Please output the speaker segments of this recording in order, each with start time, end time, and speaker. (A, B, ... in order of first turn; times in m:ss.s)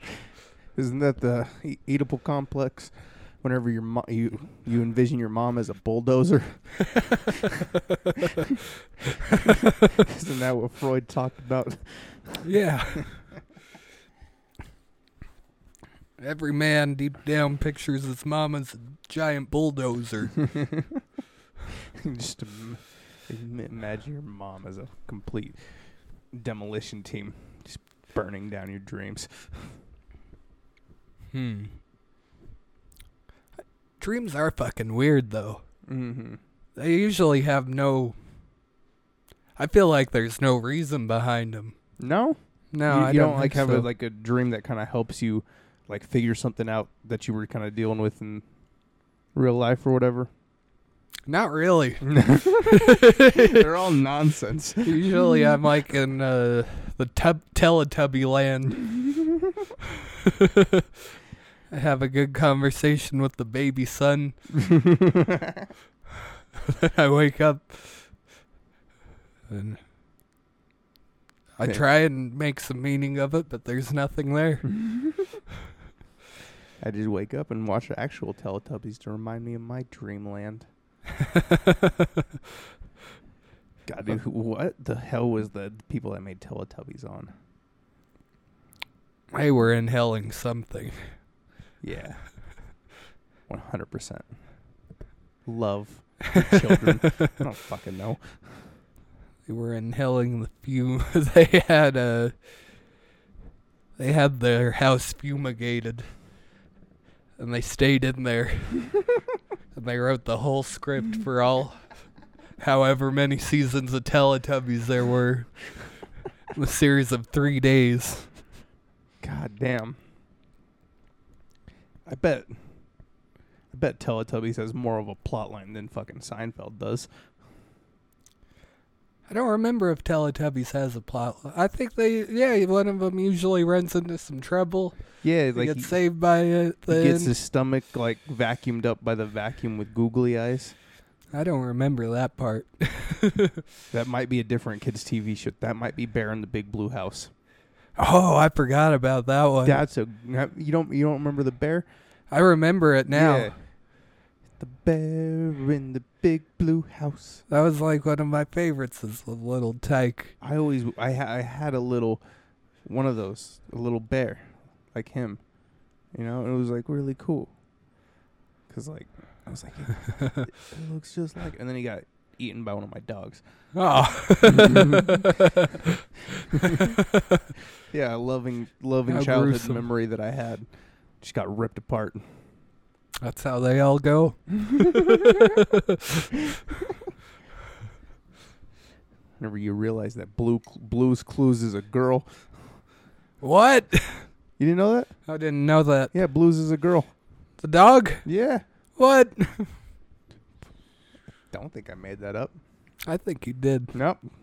0:00.7-0:07.6 A
0:07.9-0:08.3 B
0:09.4-0:12.4 A
0:12.4-0:13.2 B
0:16.2-0:20.4 B
0:20.4-0:21.0 A
0:21.8-0:25.6 A
0:26.3-0:29.7 A
0:31.3-0:31.7 B
0:34.0-0:35.6 B
0:35.9-0:36.4 A
0:36.8-0:38.2 B
0:39.6-0:41.7 B
0:42.0-0:48.4 A
0:42.7-0:43.9 B
0:49.3-0:50.3 A
0:51.3-0:53.6 B
0:52.0-0:55.3 A
0:54.8-0:59.0 B
1:00.2-1:00.8 B
1:01.7-1:04.4 B
1:04.6-1:05.7 A
1:06.6-1:08.1 B
1:09.5-1:09.8 B
1:11.6-1:14.7 B
1:14.8-1:15.1 A
1:16.8-1:20.7 A
1:21.2-1:22.2 B
1:23.8-1:27.3 A
1:29.3-1:31.0 B
1:31.8-1:32.2 A
1:33.5-1:34.2 A
1:35.4-1:38.2 A
1:36.3-1:37.4 B
1:39.4-1:42.3 B
1:44.0-1:46.1 B
1:47.4-1:48.9 B
1:49.7-1:51.8 B
1:52.6-1:55.5 B
1:56.5-1:58.3 B
1:59.2-2:00.0 A
2:02.0-2:02.5 A
2:03.7-2:07.1 A
2:09.3-2:15.0 B
2:15.2-2:16.0 A
2:15.5-2:17.3 B
2:16.9-2:20.8 A
2:21.3-2:23.6 B
2:23.9-2:27.3 A
2:28.0-2:29.8 B
2:29.6-2:31.8 A
2:32.3-2:33.5 B
2:33.1-2:33.5 A
2:34.6-2:37.4 A
2:37.5-2:40.3 B
2:40.4-2:42.2 A
2:42.8-2:45.4 A
2:46.1-2:47.5 A
2:48.7-2:53.4 A
2:53.7-2:57.5 B
2:54.5-2:55.2 A
2:56.5-2:57.0 A
2:57.9-3:00.7 A
2:59.1-2:59.8 B
3:01.2-3:02.2 A
3:03.2-3:06.4 B
3:09.4-3:12.3 A
3:13.4-3:14.3 B
3:14.6-3:15.1 A
3:15.3-3:16.1 B
3:16.1-3:17.1 A
3:17.6-3:18.2 B
3:18.2-3:18.6 A
3:19.0-3:19.8 B
3:21.5-3:22.5 A
3:23.0-3:23.9 B
3:23.9-3:24.2 A